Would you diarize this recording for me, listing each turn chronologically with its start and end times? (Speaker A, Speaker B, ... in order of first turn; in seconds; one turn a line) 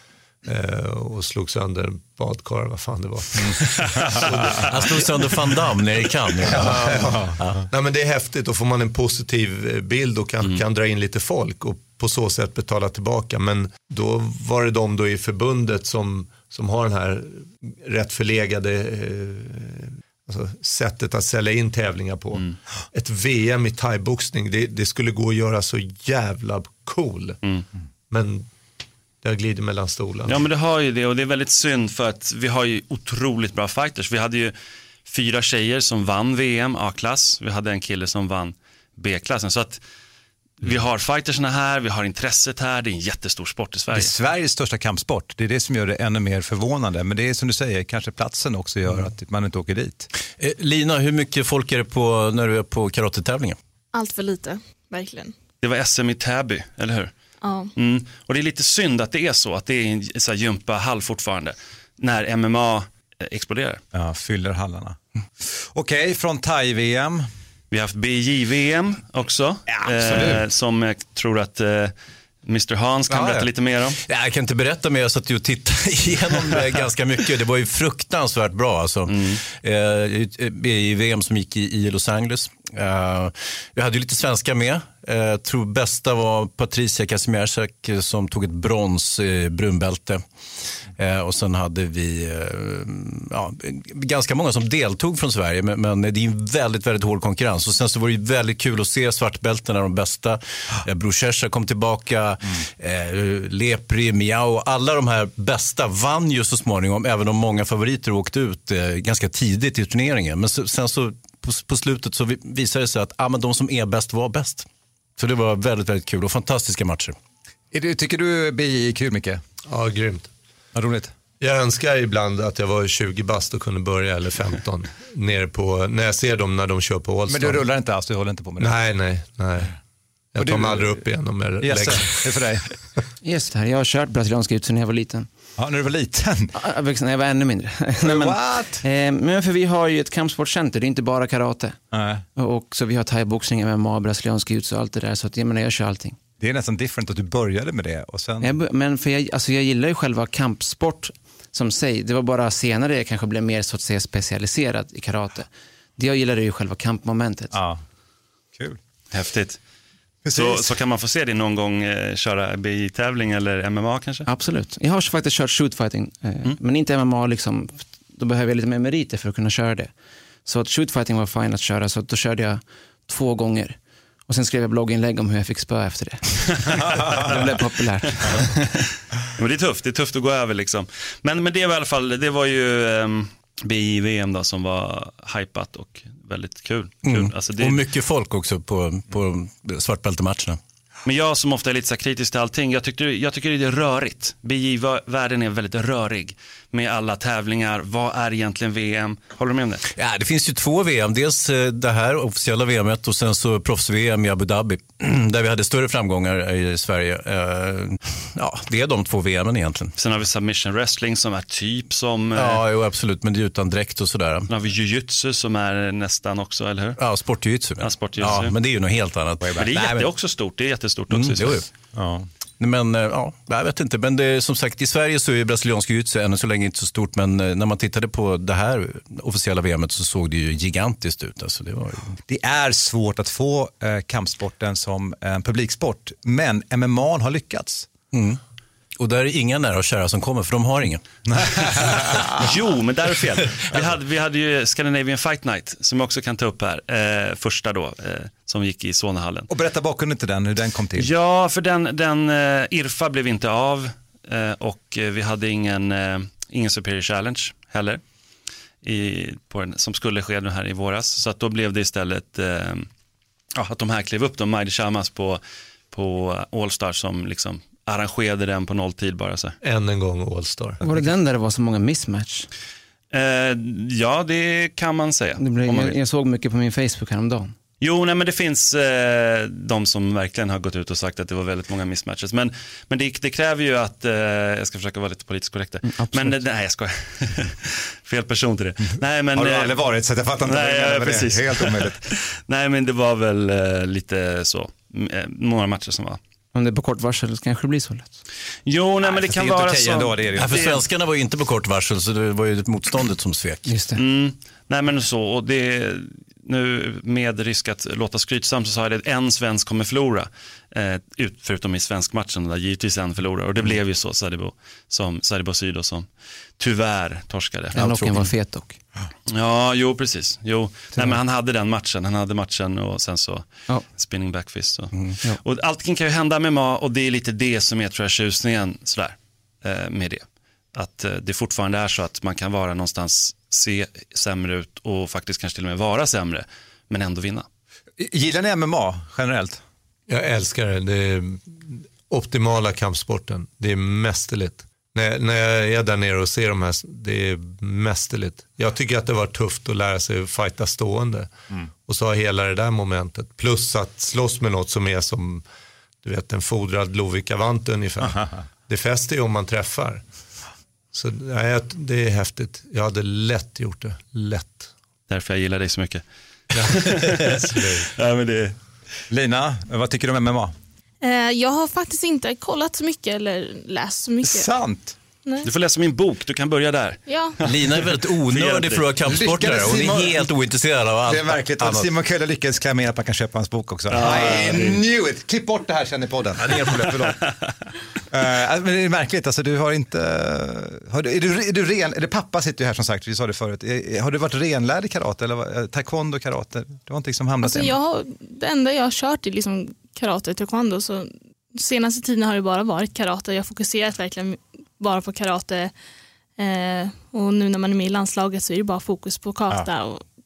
Speaker A: 0.4-4.6
Speaker B: 4.7-7.6
Speaker A: 6.4-27.4
Speaker C: 7.1-7.3
Speaker A: 28.1-28.5
Speaker A: 29.2-30.4
Speaker D: 30.3-34.5
Speaker D: 35.0-39.8
Speaker D: 40.6-44.1
Speaker C: 43.9-50.1
Speaker B: 50.4-53.6
Speaker E: 53.9-55.3
Speaker D: 55.6-57.1
Speaker E: 57.4-57.7
Speaker D: 57.8-63.8
Speaker C: 63.9-67.2
Speaker D: 67.7-74.0
Speaker C: 69.7-70.4
Speaker B: 73.2-73.4
Speaker B: 74.0-90.2
Speaker D: 79.1-79.4
Speaker B: 90.8-114.7
Speaker B: 115.2-117.1
Speaker C: 117.7-119.4
Speaker A: 119.6-120.3
Speaker C: 120.7-121.1
Speaker A: 121.4-127.7
Speaker C: 127.3-128.7
Speaker A: 128.6-129.8
Speaker A: 130.3-132.4
Speaker C: 130.4-131.0
Speaker C: 131.6-132.8
Speaker F: 133.2-135.3
Speaker C: 135.6-136.5
Speaker F: 136.5-146.2
Speaker C: 138.0-138.8
Speaker C: 141.9-142.2
Speaker C: 146.4-148.5
Speaker F: 148.4-157.5
Speaker C: 157.5-157.8
Speaker D: 159.1-159.6
Speaker C: 160.2-160.7
Speaker D: 160.3-164.3
Speaker F: 164.2-178.7
Speaker D: 179.3-187.8
Speaker B: 187.0-190.6
Speaker D: 191.0-199.8
Speaker B: 199.9-209.9
Speaker D: 210.0-212.6
Speaker B: 212.3-214.5
Speaker D: 214.5-217.0
Speaker B: 217.0-220.1
Speaker D: 217.8-218.5
Speaker C: 219.4-219.7
Speaker D: 219.6-221.6
Speaker B: 221.1-221.7
Speaker C: 221.9-222.3
Speaker B: 222.6-232.2
Speaker C: 232.3-237.9
Speaker B: 238.1-238.4
Speaker B: 239.0-241.0
Speaker C: 241.2-242.5
Speaker D: 242.4-249.5
Speaker C: 243.7-243.9
Speaker C: 249.5-251.1
Speaker D: 251.0-258.0
Speaker D: 258.8-262.9
Speaker D: 263.6-269.6
Speaker A: 269.6-270.8
Speaker F: 270.8-272.5
Speaker D: 273.1-276.0
Speaker F: 275.4-277.5
Speaker D: 277.8-289.8
Speaker F: 285.9-286.4
Speaker C: 289.3-292.0
Speaker D: 290.4-296.2
Speaker F: 296.5-298.2
Speaker D: 298.6-300.8
Speaker C: 299.0-300.7
Speaker B: 300.4-303.7
Speaker F: 303.6-304.0
Speaker D: 303.9-317.8
Speaker F: 317.7-318.8
Speaker B: 317.8-318.3
Speaker D: 319.3-337.5
Speaker C: 338.0-339.6
Speaker A: 340.1-351.3
Speaker A: 351.9-355.4
Speaker A: 356.0-360.0
Speaker A: 360.9-364.7
Speaker D: 365.1-368.6
Speaker A: 366.6-367.9
Speaker C: 369.1-370.5
Speaker E: 371.0-374.5
Speaker C: 374.2-375.0
Speaker D: 375.4-378.9
Speaker E: 377.1-377.4
Speaker B: 377.4-381.9
Speaker C: 379.1-380.3
Speaker C: 381.0-387.2
Speaker D: 383.9-384.8
Speaker B: 386.4-387.1
Speaker C: 388.1-397.8
Speaker E: 397.4-405.7
Speaker E: 406.4-410.0